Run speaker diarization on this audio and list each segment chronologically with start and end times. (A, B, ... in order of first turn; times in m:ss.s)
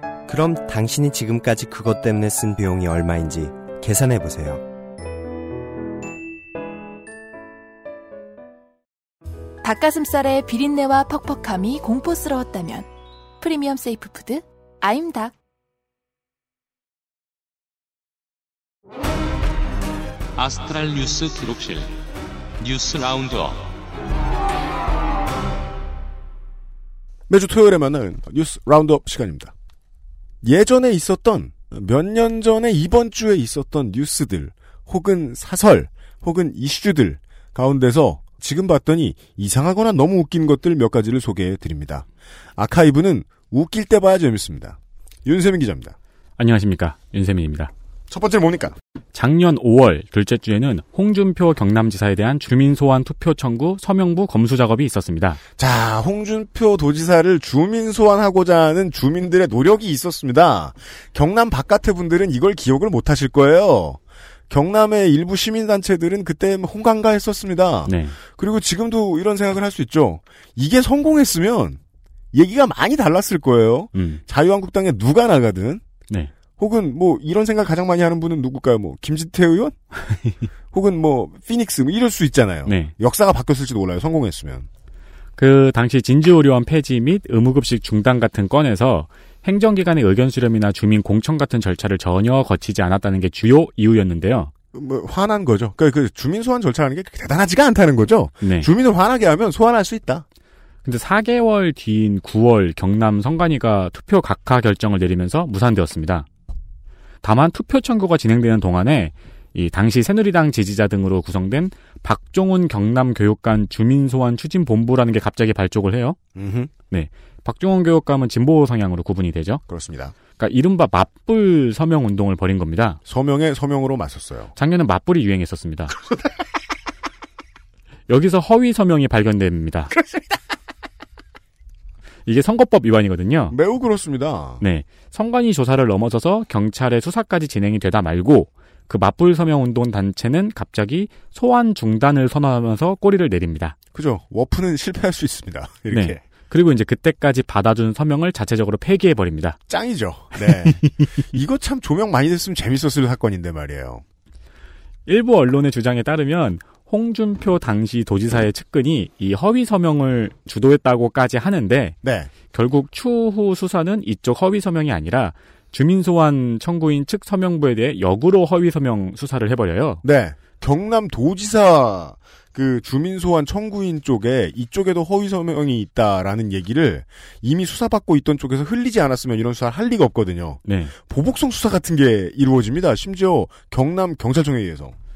0:00.3-0:04.6 A
0:09.6-0:15.3 B
0:20.4-0:21.9 C
0:22.6-0:23.6 C
0:27.3-0:29.5 D
0:30.4-0:46.0 D
0:46.4-0:47.7 E
0:48.1-0:48.8 D
0:49.1-0:55.4 E
0:55.6-1:11.8 D
1:07.9-1:08.2 E
1:12.3-1:15.8 D
1:13.9-1:14.2 E
1:16.6-1:19.8 D
1:20.7-1:24.7 D
1:22.7-1:22.9 E
1:25.4-1:34.5 E
1:34.7-1:40.2 D
1:38.4-1:38.7 E
1:40.8-1:46.3 E
1:47.2-1:56.2 E
1:56.4-1:56.7 D
1:56.9-1:59.6 E
1:59.7-2:00.2 D
2:00.3-2:03.0 E
2:03.1-2:04.5 D
2:04.6-2:05.9 E
2:08.1-2:09.9 E
2:12.3-2:13.6 E
2:13.5-2:14.6 D
2:14.6-2:23.8 E
2:23.9-2:26.2 D
2:25.9-2:29.6 E
2:29.7-2:34.0 D
2:30.4-2:30.9 E
2:35.1-2:50.0 E
2:42.0-2:42.3 D
2:50.0-3:05.0 D
3:00.6-3:00.9 E